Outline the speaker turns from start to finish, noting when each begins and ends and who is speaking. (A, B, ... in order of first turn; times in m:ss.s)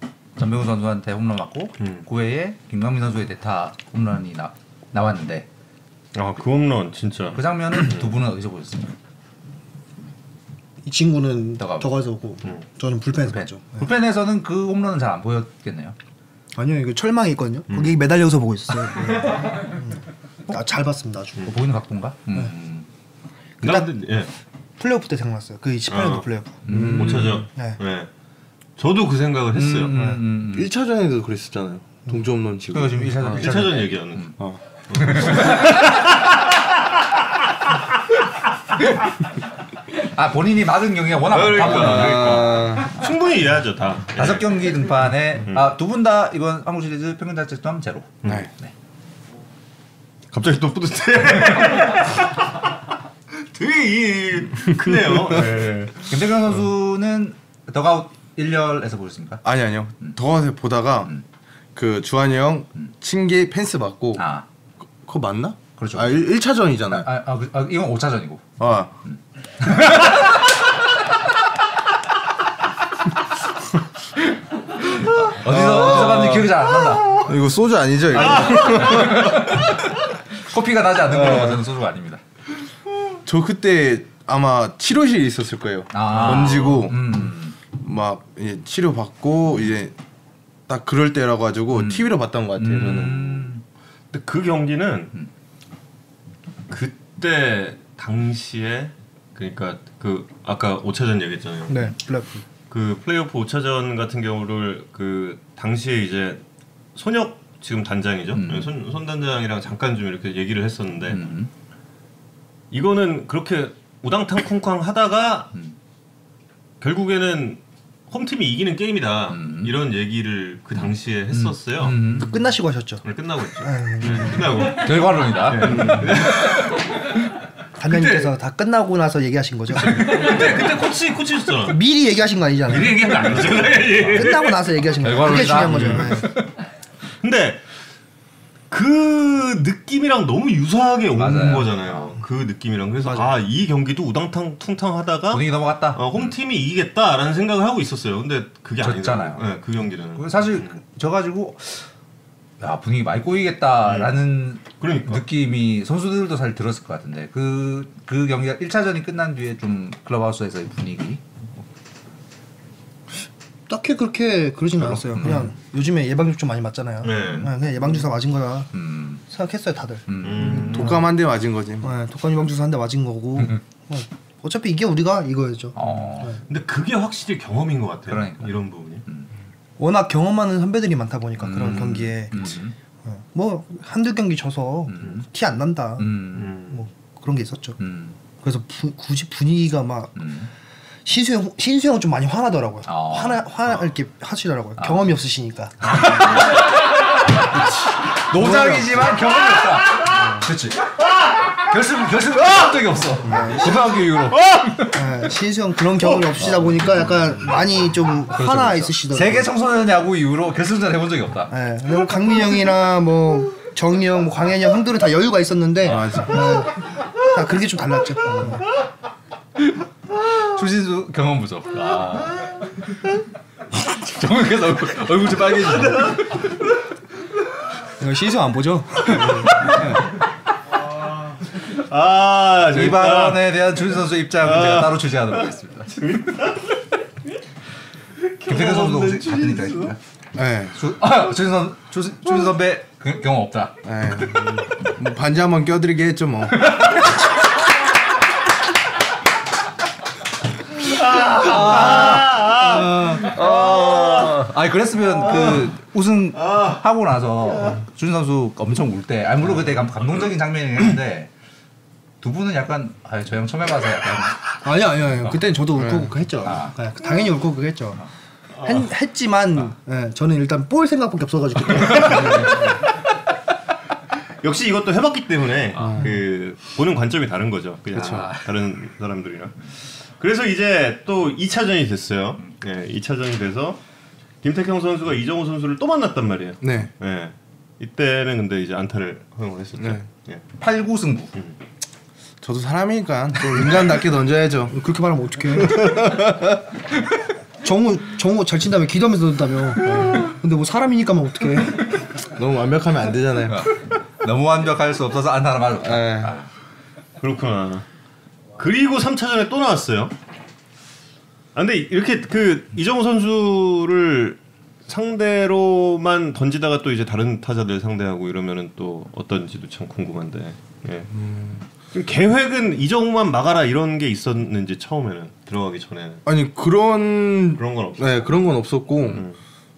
0:00.4-0:05.4 A
0:01.8-0:02.0 B
0:06.1-0:08.1 B
0:07.3-0:08.9 A
0:10.8-0:13.9 C
0:11.6-0:11.9 A
0:13.3-0:16.0 A
0:16.5-0:21.5 C
0:17.7-0:18.0 B
0:21.4-0:22.9 A
0:23.6-0:24.0 C
0:23.6-0:24.3 B
0:24.8-0:26.6 C
0:25.9-0:28.1 B
0:26.6-0:27.3 A
0:26.7-0:27.4 D
0:27.3-0:27.8 C
0:28.8-0:29.9 B
0:29.5-0:30.7 A
0:29.9-0:30.2 C
0:30.4-0:33.5 D
0:32.7-0:34.4 A
0:33.2-0:34.4 B
0:34.4-0:35.4 D
0:34.9-0:36.1 B
0:35.0-0:35.8 A
0:40.0-0:42.8 A
0:41.3-0:44.7 B
0:41.5-0:42.9 D
0:44.1-0:48.7 A
0:45.4-0:45.7 B
0:50.3-0:52.4 B
0:53.5-0:56.1 B
0:56.1-0:59.4 A
0:59.4-1:01.1 D
1:01.7-1:04.2 D
1:04.2-1:04.4 A
1:05.0-1:07.1 D
1:05.8-1:06.2 A
1:06.9-1:08.4 A
1:08.6-1:08.9 D
1:09.0-1:10.3 A
1:14.8-1:17.2 A
1:15.4-1:19.7 D
1:18.1-1:19.8 A
1:18.2-1:19.1 B
1:20.4-1:22.2 A
1:21.0-1:21.6 D
1:23.2-1:29.9 D
1:25.9-1:27.6 A
1:26.2-1:26.7 B
1:30.7-1:33.5 D
1:31.7-1:33.6 A
1:34.1-1:35.1 B
1:36.7-1:41.9 B
1:41.7-1:42.4 C
1:42.7-1:46.4 B
1:46.9-1:51.2 B
1:48.4-1:48.7 A
1:51.1-1:51.5 A
1:52.7-1:55.5 B
1:56.8-2:02.1 B
1:59.3-1:59.7 A
2:01.3-2:02.3 A
2:02.1-2:03.0 C
2:03.0-2:06.7 B
2:03.6-2:04.6 C
2:04.5-2:06.3 A
2:07.8-2:10.4 C
2:09.9-2:11.8 B
2:11.6-2:16.4 C
2:12.7-2:14.6 B
2:13.6-2:14.2 A
2:15.0-2:16.4 A
2:15.6-2:16.2 B
2:17.2-2:17.6 B
2:18.7-2:30.8 B
2:21.2-2:22.2 A
2:25.3-2:26.3 A
2:28.8-2:29.5 A
2:30.2-2:31.9 A
2:32.6-2:41.2 A
2:33.8-2:34.2 B
2:34.8-2:35.2 B
2:43.7-2:48.7 C
2:44.8-2:45.5 A
2:47.0-2:47.5 B
2:48.7-2:49.2 A
2:49.3-2:51.1 C
2:50.1-2:50.8 A
2:50.2-2:51.1 B
2:50.7-2:51.9 D
2:51.8-2:56.4 C
2:55.8-2:56.4 A
2:56.5-2:59.0 B
2:58.1-2:58.5 A
2:59.8-3:07.8 C
3:01.4-3:02.7 A
3:04.9-3:05.2 A
3:06.0-3:06.5 A
3:06.4-3:06.8 B
3:07.8-3:08.2 A
3:08.4-3:10.1 C
3:10.2-3:10.5 A
3:11.0-3:16.4 C
3:12.9-3:13.4 A
3:14.8-3:15.1 A
3:15.8-3:20.9 A
3:18.3-3:19.0 C
3:21.6-3:24.9 A
3:23.2-3:23.7 C
3:24.9-3:29.5 C
3:26.4-3:26.9 A
3:28.3-3:31.5 A
3:31.5-3:38.6 C
3:35.9-3:36.3 A
3:35.9-3:36.4 D
3:40.4-3:42.5 A
3:43.7-3:46.2 A
3:45.8-3:46.2 B
3:48.0-3:50.0 C
3:50.9-3:53.6 B
3:52.7-3:56.0 A
3:54.4-3:55.4 B
3:55.9-3:56.6 B
3:58.4-3:59.9 B
3:58.4-4:00.0 A
4:00.4-4:00.8 D
4:00.7-4:03.8 A
4:03.8-4:06.8 D
4:06.6-4:07.1 A
4:10.8-4:14.4 B
4:11.2-4:21.3 A
4:15.2-4:15.7 B
4:16.4-4:16.8 B
4:22.2-4:24.6 A
4:24.6-4:28.0 C
4:25.8-4:26.1 D
4:26.4-4:26.8 A
4:28.6-4:28.9 B
4:28.6-4:32.8 C
4:31.9-4:32.7 B
4:34.4-4:43.8 B
4:37.9-4:38.3 D
4:37.9-4:38.5 A
4:44.4-4:50.4 B
4:46.6-4:46.9 D
4:50.6-4:51.3 A
4:52.4-4:54.8 D
4:53.5-4:53.9 C
4:54.7-4:56.1 C
4:55.6-4:56.6 D
4:57.6-5:02.0 C
5:02.3-5:03.6 D
5:03.5-5:06.5 A
5:05.8-5:06.4 D
5:07.2-5:07.8 B
5:08.6-5:10.1 B
5:11.5-5:21.1 B
5:21.1-5:21.6 D
5:21.9-5:26.2 B
5:26.2-5:29.2 D
5:27.6-5:29.4 B